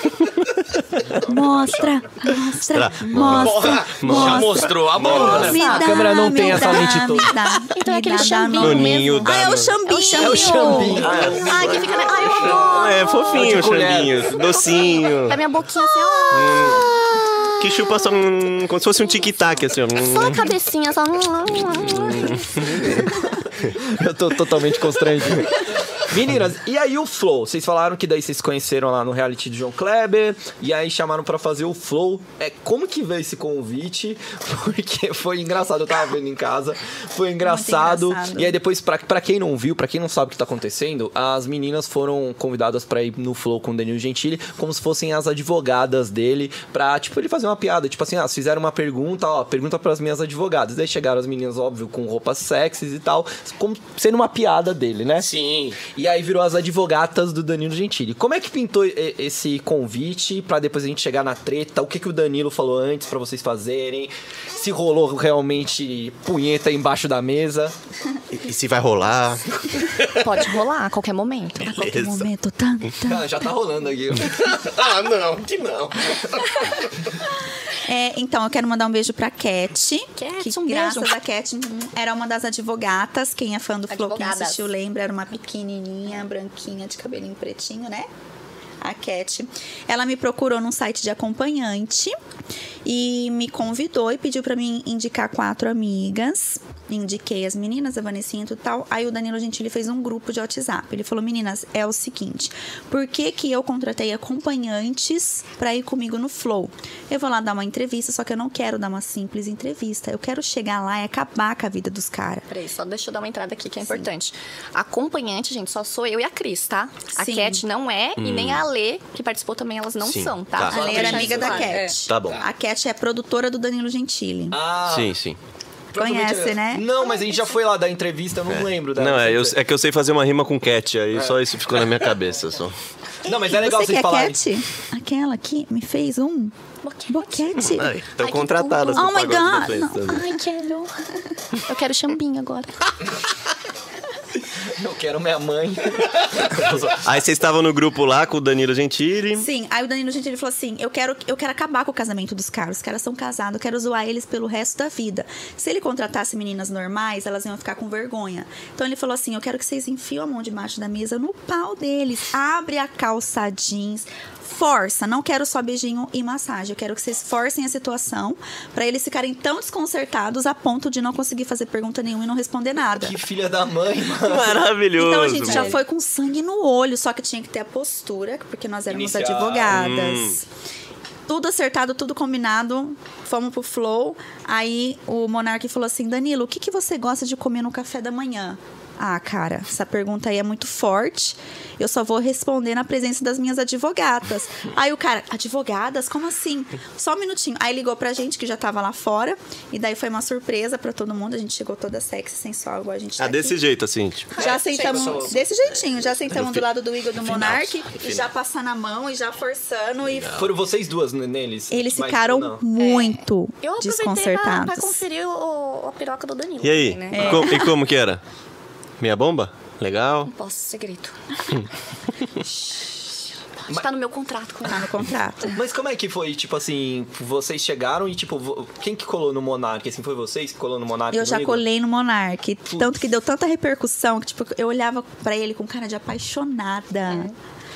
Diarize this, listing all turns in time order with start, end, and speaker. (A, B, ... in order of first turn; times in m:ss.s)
0:00.2-0:00.8 A
0:01.1-0:01.6 B
0:01.2-0:11.1 C
0:02.7-0:05.6 A
0:03.2-0:05.6 D
0:05.0-0:07.3 B
0:05.2-0:06.7 E
0:07.5-0:13.4 E
0:08.6-0:09.8 A
0:10.1-0:11.9 B
0:11.0-0:11.9 A
0:11.3-0:12.6 D
0:12.4-0:12.7 B
0:12.6-0:15.4 A
0:13.3-0:14.6 B
0:14.8-0:16.9 E
0:16.3-0:20.5 A
0:20.0-0:23.0 E
0:22.0-0:23.1 A
0:22.8-0:55.3 B
0:37.4-0:38.6 C
0:55.2-0:55.8 D
0:55.9-1:07.7 B
1:08.3-1:09.4 A
1:10.1-1:12.1 E
1:11.6-1:12.3 A
1:11.6-1:13.4 C
1:13.0-1:14.6 B
1:14.3-1:16.9 D
1:17.8-1:28.1 C
1:20.2-1:21.1 E
1:23.9-1:24.7 E
1:28.8-1:32.2 C
1:32.8-1:52.5 C
1:52.5-2:02.0 E
1:57.1-1:57.6 C
1:58.2-1:58.6 A
2:00.0-2:01.2 A
2:00.6-2:04.6 C
2:00.7-2:01.8 B
2:02.0-2:02.4 A
2:04.5-2:05.1 B
2:04.8-2:05.4 A
2:05.9-2:09.6 B
2:06.0-2:06.9 C
2:08.5-2:12.7 A
2:11.1-2:11.4 B
2:13.2-2:14.4 B
2:13.3-2:16.5 C
2:16.8-2:17.6 E
2:17.1-2:17.9 C
2:17.7-2:20.3 A
2:18.2-2:20.9 E
2:18.9-2:20.2 C
2:21.5-2:22.9 E
2:24.7-2:27.0 B
2:27.0-2:29.5 A
2:29.3-2:53.2 C
2:52.9-2:54.7 B
2:54.2-2:55.7 A
2:54.9-3:00.4 C
2:58.9-2:59.8 B
2:59.7-3:00.4 A
3:01.3-3:23.6 C
3:23.2-3:24.3 A
3:24.3-3:30.4 C
3:24.3-3:25.4 E
3:24.4-3:25.4 B
3:26.3-3:28.3 A
3:30.1-3:30.5 A
3:30.4-3:32.6 B
3:31.7-3:35.0 C
3:32.8-3:37.5 E
3:36.6-3:38.2 A
3:37.1-3:37.8 C
3:39.0-3:40.3 A
3:40.3-3:41.5 E
3:43.7-3:45.0 E
3:44.6-3:45.5 C
3:45.5-3:51.6 B
3:51.1-3:57.3 C